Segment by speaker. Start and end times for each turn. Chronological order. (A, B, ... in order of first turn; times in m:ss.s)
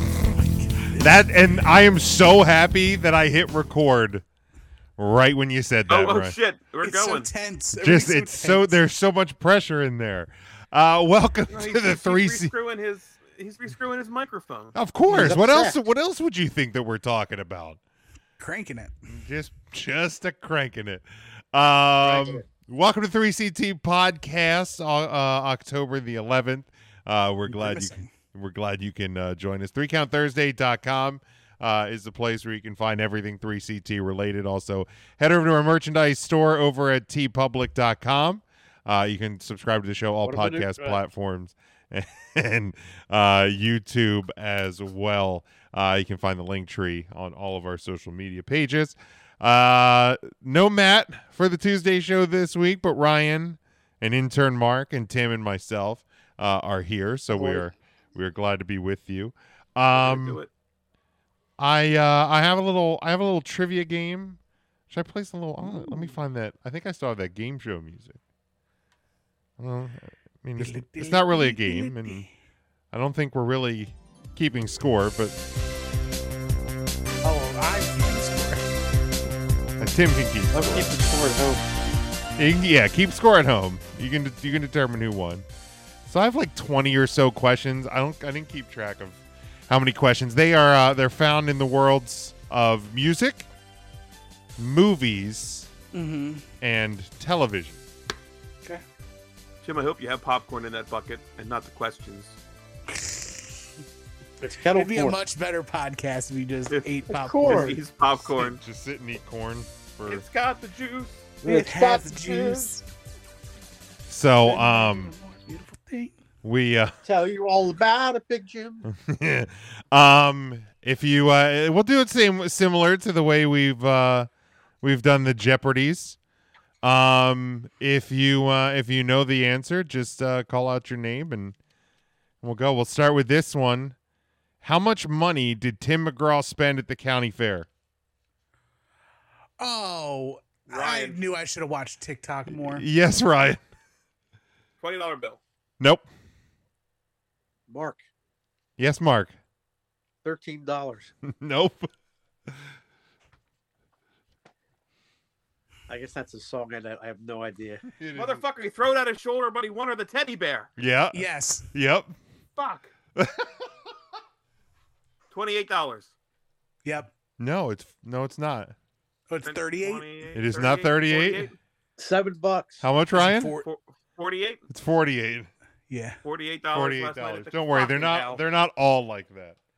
0:00.3-0:01.2 A
0:01.0-0:04.2 B
0:05.0-0:06.3 B
0:05.9-0:07.3 C
0:06.8-0:08.8 A
0:07.8-0:12.5 B
0:11.5-0:14.8 C
0:14.7-0:17.8 B
0:15.1-0:15.4 A
0:15.1-0:15.8 D
0:18.4-0:18.9 A
0:19.1-1:00.4 B
0:22.0-0:22.4 D
0:27.5-0:28.1 A
0:40.2-0:41.0 D
0:57.3-0:57.6 D
0:59.9-1:00.5 C
1:01.6-1:08.2 B
1:05.6-1:05.9 A
1:09.6-1:12.2 B
1:10.6-1:12.3 A
1:12.9-1:15.4 B
1:17.2-1:18.7 A
1:19.8-1:20.9 B
1:20.5-1:21.6 D
1:22.4-1:25.4 B
1:26.0-1:33.5 B
1:34.6-1:35.7 B
1:35.9-1:36.4 A
1:36.6-1:37.8 B
1:39.6-1:42.4 C
1:42.9-1:43.6 A
1:44.4-1:45.2 D
1:44.7-1:47.8 A
1:46.7-1:48.6 C
1:47.1-1:47.8 D
1:48.4-1:50.2 B
1:50.0-1:51.3 C
1:51.4-1:52.7 D
1:51.4-1:52.8 A
1:54.1-1:55.1 B
1:54.4-1:56.1 A
1:56.4-1:57.0 B
1:57.0-1:58.9 D
1:58.8-2:04.3 B
2:04.8-2:06.2 B
2:06.8-2:11.5 B
2:12.4-2:13.9 B
2:14.6-2:17.7 B
2:19.6-2:22.8 A
2:20.7-2:21.2 C
2:22.5-2:23.6 B
2:24.8-2:25.4 C
2:25.8-2:26.1 B
2:27.7-2:28.0 D
2:28.8-2:29.4 B
2:30.2-2:31.1 D
2:31.2-2:31.9 B
2:35.9-2:37.8 D
2:38.0-2:38.4 B
2:38.1-2:40.7 C
2:40.8-2:42.2 B
2:41.1-2:41.7 A
2:42.6-2:42.9 C
2:43.2-2:43.7 B
2:45.3-2:46.1 C
2:46.8-2:47.1 A
2:47.4-2:48.7 B
2:49.3-2:50.1 A
2:49.4-2:51.5 C
2:50.3-2:51.5 B
2:52.0-2:52.9 D
2:52.8-2:53.5 B
2:53.1-2:53.6 A
2:53.6-2:54.6 C
2:54.7-2:55.5 B
2:55.9-2:56.2 A
2:56.2-2:58.4 C
2:56.7-2:59.6 B